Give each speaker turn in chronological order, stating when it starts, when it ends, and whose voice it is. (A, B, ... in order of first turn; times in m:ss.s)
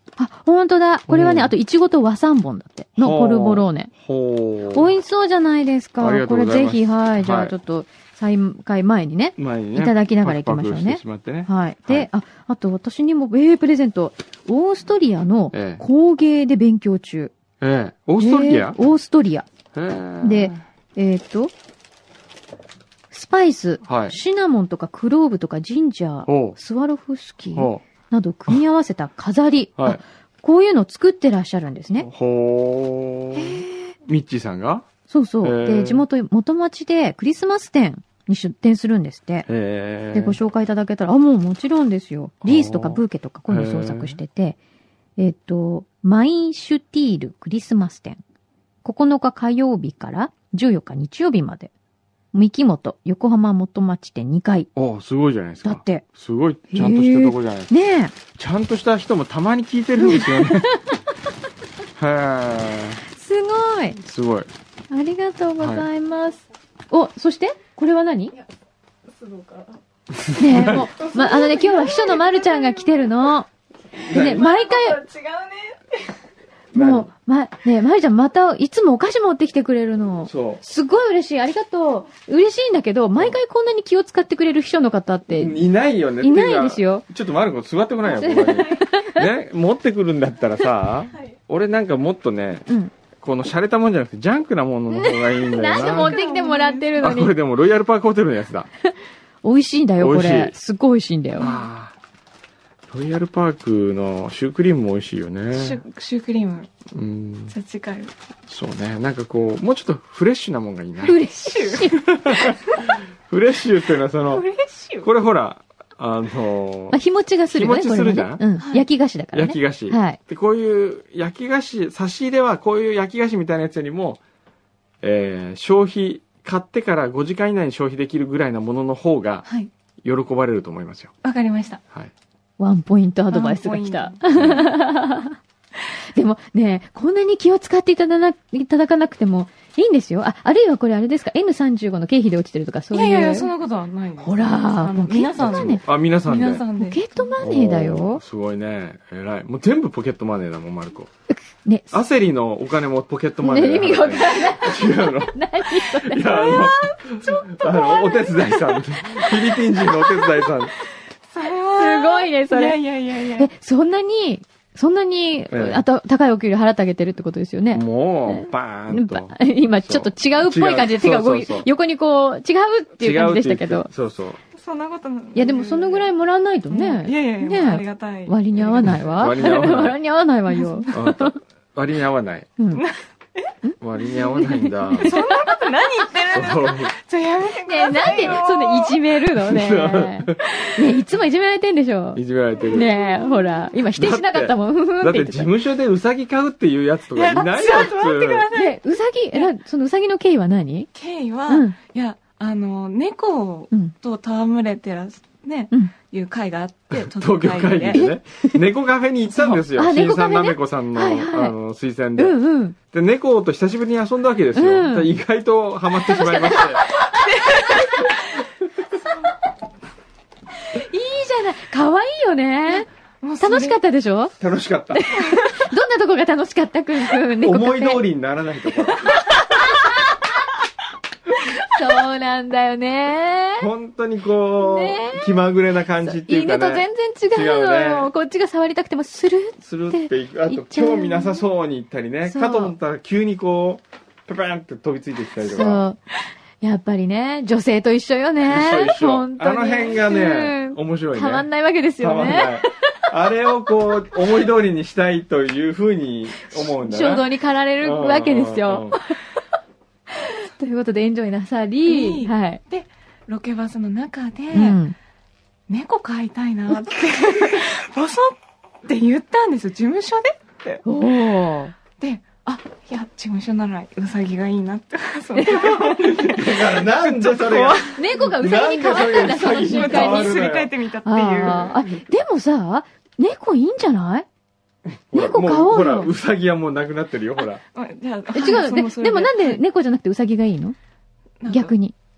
0:00.2-0:03.9 A
0:01.1-0:01.5 B
0:03.0-0:04.9 B
0:04.7-0:17.3 A
0:06.0-0:07.5 B
0:09.4-0:12.1 B
0:15.5-0:15.8 B
0:17.6-0:18.8 B
0:18.2-0:19.5 A
0:19.7-0:20.6 B
0:20.2-0:21.5 A
0:23.1-0:32.1 A
0:23.8-0:24.2 B
0:26.3-0:26.6 B
0:27.5-0:27.8 B
0:32.0-0:34.8 B
0:33.3-0:33.9 A
0:35.1-0:39.5 A
0:35.4-0:36.0 B
0:39.5-0:40.4 B
0:40.1-0:44.6 A
0:42.4-0:44.2 B
0:45.2-0:48.2 A
0:48.8-0:51.7 A
0:52.3-0:54.7 A
0:54.8-0:57.7 B
0:55.6-0:56.0 A
0:56.7-0:58.1 A
0:58.3-1:00.7 B
1:00.0-1:00.8 A
1:02.0-1:03.0 B
1:03.0-1:04.0 A
1:04.0-1:04.5 B
1:04.9-1:08.4 A
1:05.6-1:05.9 B
1:09.1-1:09.8 C
1:10.1-1:10.9 B
1:10.3-1:13.5 A
1:10.7-1:12.8 C
1:14.0-1:14.5 B
1:14.0-1:16.2 C
1:14.1-1:15.0 A
1:16.7-1:17.1 B
1:16.7-1:25.6 A
1:20.3-1:20.6 B
1:25.3-1:36.2 B
1:26.2-1:27.0 A
1:28.0-1:29.2 A
1:28.3-1:28.8 C
1:32.7-1:32.9 A
1:34.9-1:37.3 A
1:35.7-1:37.1 C
1:37.0-1:38.7 B
1:39.4-1:41.5 A
1:40.0-1:40.5 B
1:41.4-1:41.7 C
1:41.4-1:41.9 B
1:42.9-1:45.8 B
1:45.5-1:46.7 C
1:46.9-1:47.5 B
1:47.5-1:48.1 C
1:48.5-1:51.2 B
1:51.0-1:52.0 A
1:51.4-1:51.8 C
1:51.9-1:54.4 B
1:54.3-1:55.1 C
1:55.0-1:57.0 B
1:56.9-2:00.2 A
1:57.5-1:58.4 B
1:58.6-1:58.8 C
1:59.3-2:04.2 B
2:05.0-2:09.4 B
2:09.4-2:09.7 C
2:10.0-2:11.1 B
2:11.2-2:11.8 C
2:12.6-2:15.4 A
2:13.3-2:14.2 C
2:14.3-2:14.7 B
2:16.1-2:23.5 A
2:22.9-2:27.3 C
2:24.2-2:25.8 A
2:25.4-2:26.6 B
2:26.8-2:28.2 A
2:27.4-2:31.1 B
2:31.3-2:32.0 A
2:31.9-2:40.7 B
2:33.4-2:36.7 A
2:36.5-2:38.1 C
2:39.9-2:40.2 A
2:41.3-2:43.5 C
2:41.8-2:42.8 A
2:43.3-2:53.9 A
2:45.5-2:45.8 B
2:47.7-2:51.7 B
2:53.0-2:54.4 B
2:54.5-2:56.1 C
2:55.3-3:01.4 A
2:56.7-2:59.5 C
2:58.8-3:00.0 B
3:00.5-3:00.9 C
3:00.9-3:02.5 B
3:02.6-3:02.8 A
3:02.7-3:03.5 C
3:03.8-3:05.2 B
3:04.3-3:05.4 A
3:05.0-3:09.0 C
3:06.3-3:06.9 B
3:07.6-3:15.5 A
3:09.4-3:10.4 B
3:12.1-3:12.9 B
3:12.8-3:13.5 C
3:13.9-3:18.5 B
3:17.1-3:18.8 C
3:18.5-3:20.9 A
3:20.9-3:28.1 C
3:21.5-3:21.8 A
3:26.9-3:32.4 B
3:29.7-3:31.5 A
3:32.2-3:32.8 A
3:32.9-3:36.9 B
3:34.5-3:35.1 A
3:36.0-3:38.1 A
3:36.9-3:38.3 C
3:40.6-3:42.9 A
3:42.7-3:43.8 C
3:43.4-3:44.3 A
3:44.4-3:45.1 B
3:44.9-3:48.0 A
3:45.2-3:45.6 C
3:47.4-3:49.3 B
3:49.2-3:50.2 A
3:51.6-3:53.7 A
3:53.6-3:58.1 B
3:54.6-3:55.4 A
3:56.0-4:01.4 A
3:59.6-4:05.8 B
4:02.2-4:02.7 A
4:05.4-4:06.0 A
4:06.6-4:12.9 A
4:08.4-4:11.5 B
4:12.0-4:17.3 B
4:16.4-4:19.1 A
4:17.8-4:19.0 B
4:20.3-4:22.6 A
4:21.8-4:24.8 C
4:24.5-4:24.9 A
4:25.7-4:30.8 C
4:30.8-4:31.7 A
4:32.0-4:38.0 C
4:35.4-4:35.7 A
4:35.5-4:40.7 B
4:37.9-4:40.4 A
4:38.9-4:41.7 C
4:41.0-4:44.2 A
4:41.4-4:41.9 B
4:44.9-4:47.6 B
4:45.1-4:46.1 A
4:47.7-4:49.6 C
4:48.3-4:50.8 A
4:51.4-4:51.8 C
4:51.5-4:51.9 A